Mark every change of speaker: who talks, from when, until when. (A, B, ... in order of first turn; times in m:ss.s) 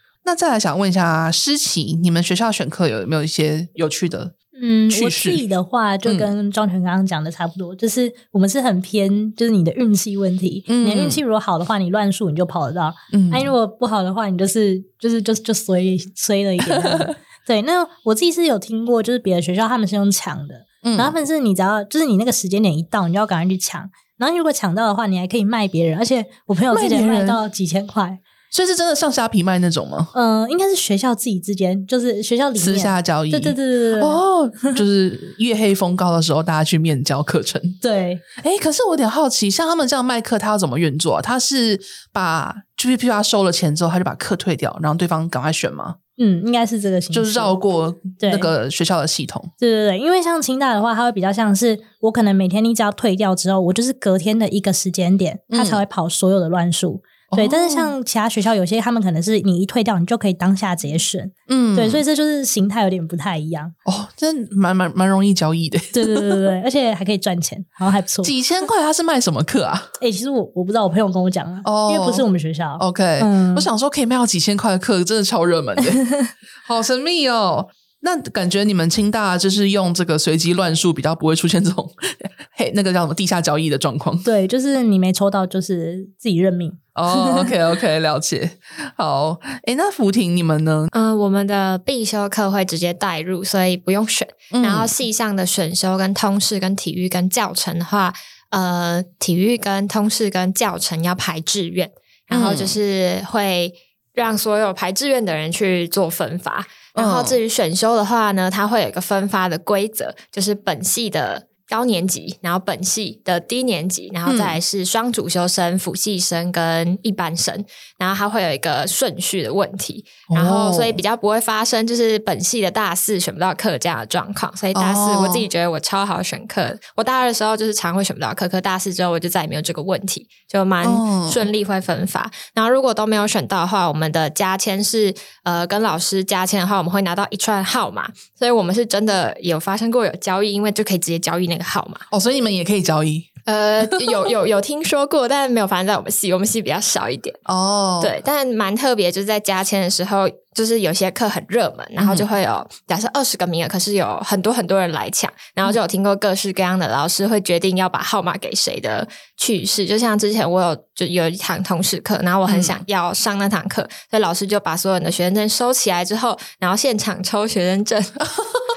0:00.2-0:04.3 A
0:04.6-0:28.2 B
0:04.9-0:05.4 A
0:06.0-0:06.3 A
0:10.7-0:11.2 A
0:13.1-0:13.5 A
0:16.6-0:17.1 A
0:20.8-0:21.2 A
0:26.7-0:27.4 A
0:28.5-0:30.1 A
0:30.1-0:34.8 B
0:32.6-0:37.8 A
0:37.8-0:38.2 B
0:38.4-0:46.0 A
0:46.2-0:47.5 B
0:47.1-0:49.5 A
0:48.2-0:48.5 B
0:49.6-1:03.7 B
0:55.5-0:55.8 A
0:57.3-0:57.9 A
1:01.5-1:02.0 A
1:03.8-1:06.4 A
1:05.9-1:08.3 B
1:08.2-1:09.9 A
1:10.0-1:13.7 B
1:11.6-1:16.1 A
1:16.6-1:24.3 A
1:24.2-1:27.5 B
1:26.9-1:30.9 A
1:30.9-2:22.0 C
1:34.5-1:34.9 A
1:42.3-1:42.8 A
1:46.9-1:47.4 A
1:54.2-1:54.6 A
2:00.3-2:01.0 A
2:04.7-2:05.5 A
2:10.8-2:11.5 A
2:22.1-2:23.3 A
2:23.4-2:27.4 C
2:27.4-2:28.1 A
2:28.0-2:48.2 C
2:32.0-2:32.3 A
2:42.5-2:42.8 A